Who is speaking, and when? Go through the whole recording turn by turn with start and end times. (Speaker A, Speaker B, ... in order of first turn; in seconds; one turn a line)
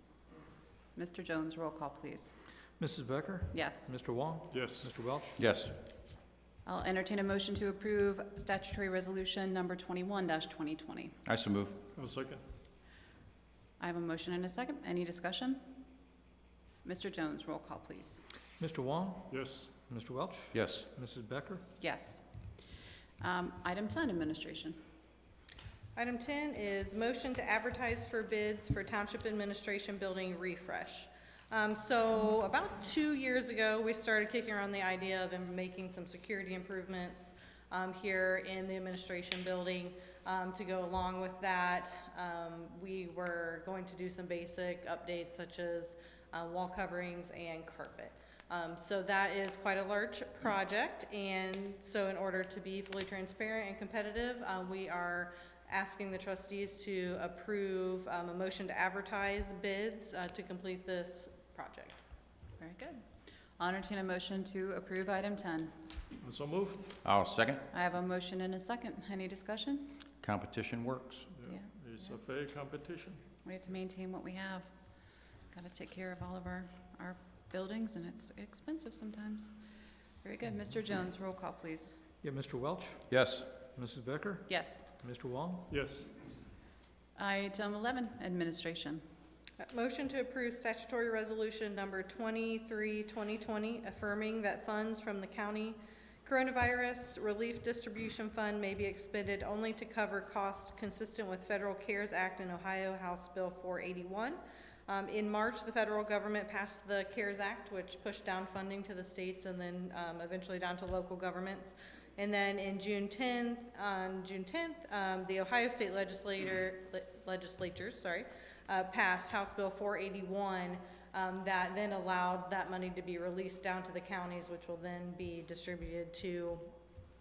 Speaker A: 0.9-2.3
Speaker B: 2.8-5.4
Speaker A: 3.5-3.9
Speaker C: 4.5-4.9
Speaker D: 5.4-5.8
Speaker A: 6.7-11.2
Speaker D: 11.3-11.8
Speaker C: 11.9-12.4
Speaker A: 13.8-15.8
Speaker A: 16.8-18.2
Speaker B: 18.6-21.6
Speaker C: 19.3-19.7
Speaker D: 20.5-20.9
Speaker A: 21.8-22.2
Speaker A: 23.2-24.8
Speaker E: 26.0-62.0
Speaker A: 62.6-63.0
Speaker A: 63.6-65.7
Speaker C: 66.2-66.9
Speaker D: 67.0-67.7
Speaker A: 67.7-70.0
Speaker D: 70.2-71.3
Speaker C: 71.3-73.2
Speaker A: 73.4-74.7
Speaker A: 75.5-79.5
Speaker A: 80.2-82.0
Speaker B: 82.2-83.1
Speaker D: 83.1-83.5
Speaker B: 83.6-85.7
Speaker A: 84.5-84.8
Speaker C: 85.7-86.1
Speaker A: 87.2-89.0
Speaker E: 89.6-126.7